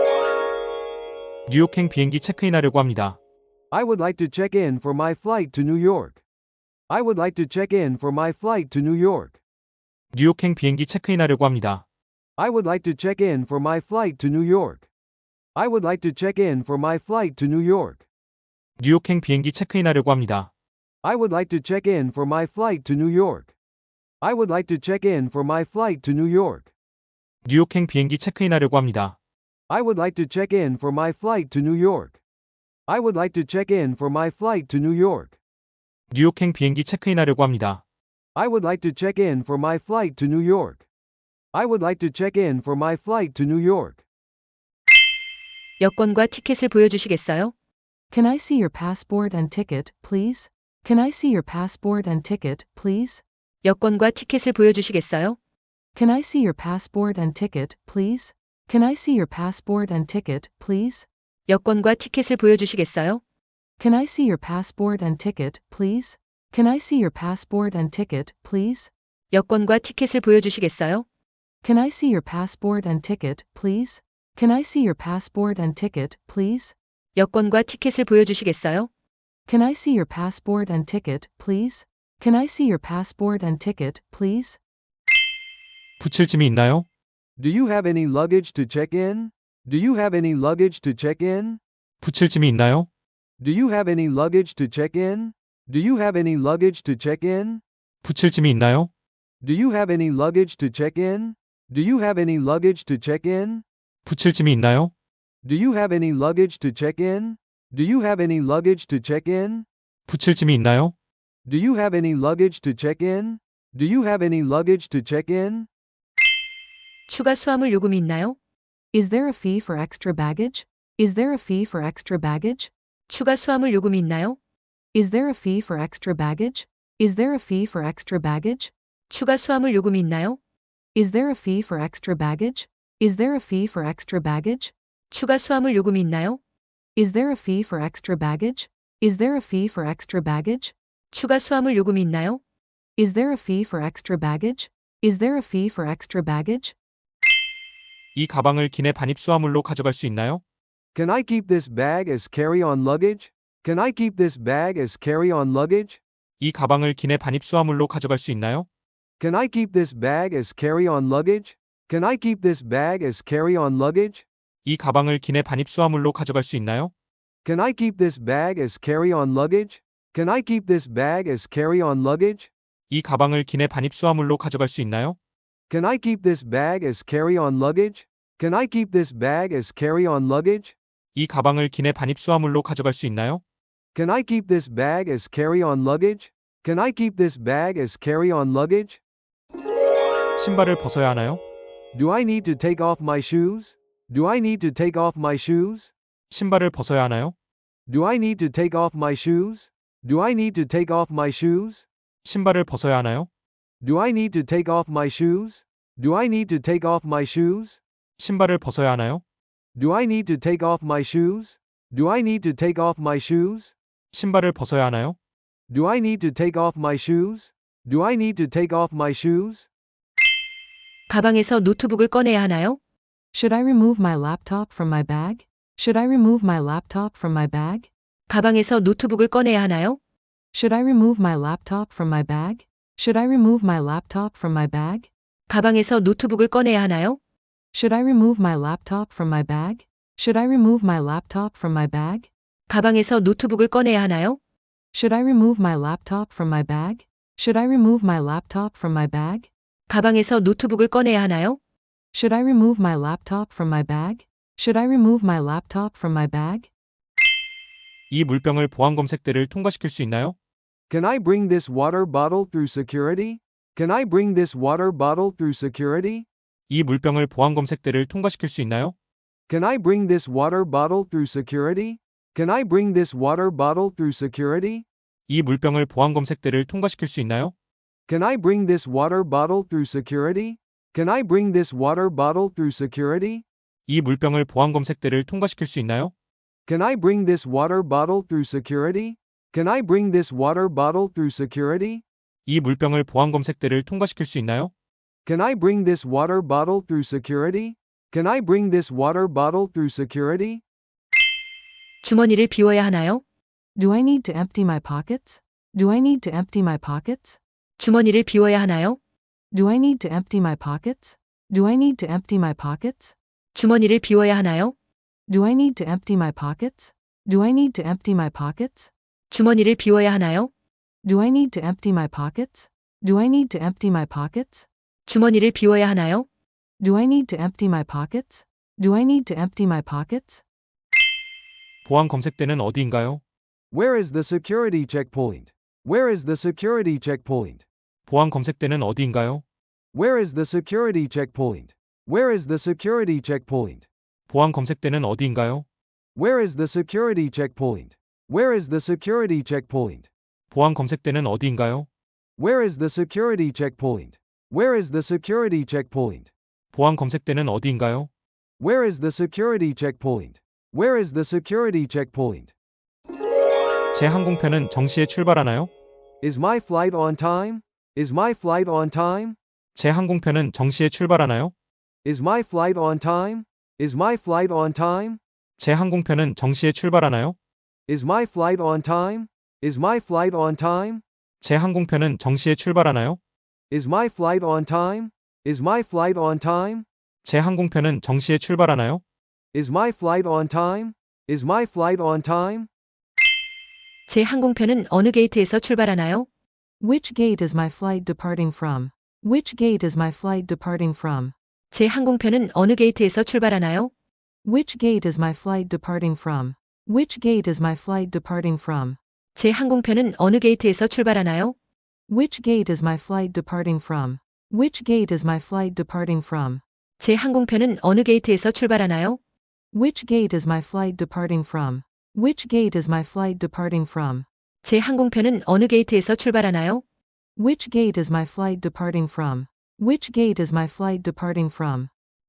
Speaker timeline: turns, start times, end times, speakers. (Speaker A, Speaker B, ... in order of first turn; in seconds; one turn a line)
Speaker A: 1.5-3.2
Speaker B: 3.7-6.2
Speaker B: 6.9-9.4
Speaker A: 10.1-11.8
Speaker B: 12.4-14.9
Speaker B: 15.6-18.1
Speaker A: 18.8-20.5
Speaker B: 21.0-23.6
Speaker B: 24.2-26.7
Speaker A: 27.4-29.2
Speaker B: 29.7-32.2
Speaker B: 32.9-35.4
Speaker A: 36.1-37.8
Speaker B: 38.4-40.9
Speaker B: 41.5-44.0
Speaker C: 45.8-47.5
Speaker D: 48.1-53.2
Speaker C: 53.6-55.4
Speaker D: 56.0-61.1
Speaker C: 61.5-63.2
Speaker D: 63.8-68.9
Speaker C: 69.3-71.0
Speaker D: 71.6-76.8
Speaker C: 77.2-78.9
Speaker D: 79.5-84.6
Speaker A: 86.0-86.9
Speaker B: 87.4-91.6
Speaker A: 92.0-92.9
Speaker B: 93.4-97.6
Speaker A: 98.0-98.9
Speaker B: 99.4-103.6
Speaker A: 104.0-104.9
Speaker B: 105.4-109.7
Speaker A: 110.1-110.9
Speaker B: 111.5-115.7
Speaker C: 117.1-118.4
Speaker D: 118.9-122.7
Speaker C: 123.1-124.4
Speaker D: 124.9-128.7
Speaker C: 129.1-130.4
Speaker D: 130.9-134.7
Speaker C: 135.1-136.4
Speaker D: 137.0-140.8
Speaker C: 141.1-142.4
Speaker D: 143.0-146.8
Speaker A: 148.2-150.4
Speaker B: 150.9-156.0
Speaker A: 156.4-158.7
Speaker B: 159.2-164.3
Speaker A: 164.7-166.9
Speaker B: 167.4-172.5
Speaker A: 172.9-175.2
Speaker B: 175.7-180.8
Speaker A: 181.2-183.4
Speaker B: 183.9-189.0
Speaker A: 190.4-191.4
Speaker B: 191.9-195.9
Speaker A: 196.3-197.3
Speaker B: 197.9-201.9
Speaker A: 202.2-203.3
Speaker B: 203.8-207.8
Speaker A: 208.2-209.2
Speaker B: 209.8-213.7
Speaker A: 214.1-215.2
Speaker B: 215.7-219.7
Speaker C: 221.1-222.8
Speaker D: 223.3-227.9
Speaker C: 228.3-230.0
Speaker D: 230.5-235.1
Speaker C: 235.5-237.2
Speaker D: 237.7-242.3
Speaker C: 242.7-244.4
Speaker D: 244.9-249.5
Speaker C: 249.9-251.6
Speaker D: 252.1-256.7
Speaker A: 258.1-260.4
Speaker B: 260.9-266.3
Speaker A: 266.7-268.9
Speaker B: 269.5-274.9
Speaker A: 275.3-277.5
Speaker B: 278.1-283.4
Speaker A: 283.9-286.1
Speaker B: 286.7-292.0
Speaker A: 292.5-294.7
Speaker B: 295.2-300.6
Speaker C: 302.0-303.2
Speaker D: 303.8-307.4
Speaker C: 307.8-309.0
Speaker D: 309.5-313.2
Speaker C: 313.5-314.8
Speaker D: 315.3-318.9
Speaker C: 319.3-320.5
Speaker D: 321.0-324.7
Speaker C: 325.1-326.3
Speaker D: 326.8-330.4
Speaker A: 331.9-333.2
Speaker B: 333.7-337.6
Speaker A: 338.1-339.4
Speaker B: 339.9-343.9
Speaker A: 344.3-345.7
Speaker B: 346.2-350.1
Speaker A: 350.5-351.9
Speaker B: 352.4-356.3
Speaker A: 356.7-358.1
Speaker B: 358.6-362.5
Speaker A: 363.9-365.7
Speaker B: 366.2-369.4
Speaker A: 369.8-371.5
Speaker B: 372.1-375.2
Speaker A: 375.6-377.4
Speaker B: 377.9-381.0
Speaker A: 381.4-383.2
Speaker B: 383.7-386.9
Speaker A: 387.2-389.0
Speaker B: 389.5-392.7
Speaker C: 394.1-396.3
Speaker D: 396.8-401.3
Speaker C: 401.7-403.9
Speaker D: 404.4-409.0
Speaker C: 409.4-411.6
Speaker D: 412.1-416.6
Speaker C: 417.0-419.2
Speaker D: 419.7-424.3
Speaker C: 424.6-426.8
Speaker D: 427.4-431.9